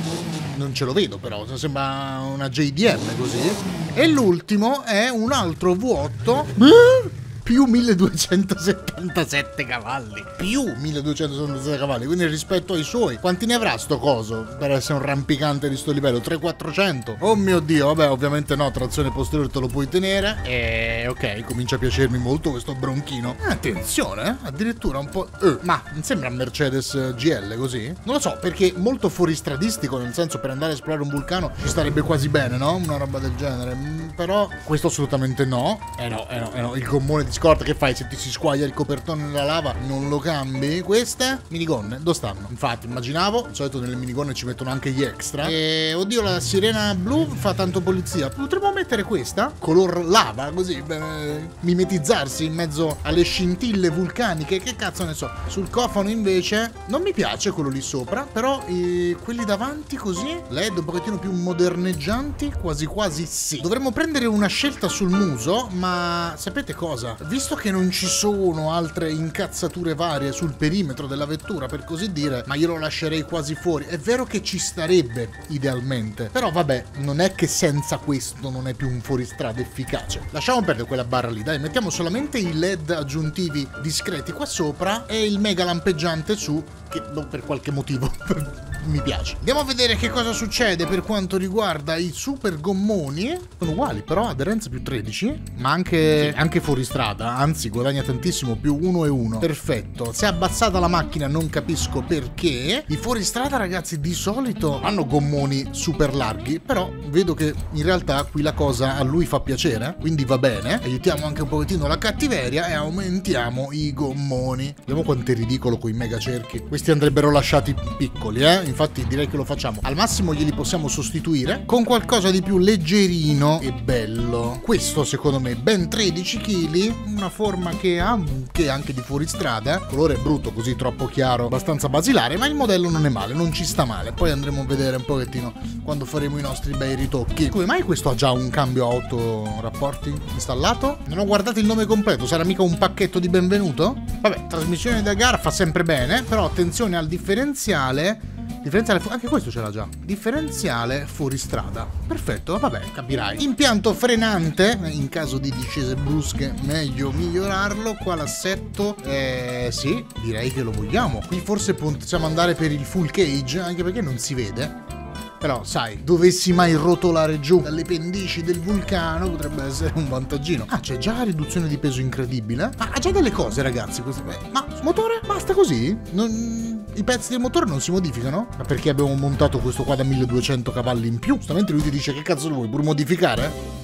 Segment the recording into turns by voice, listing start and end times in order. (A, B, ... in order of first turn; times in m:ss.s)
0:00.5-2:44.8 A
2:45.4-3:03.6 A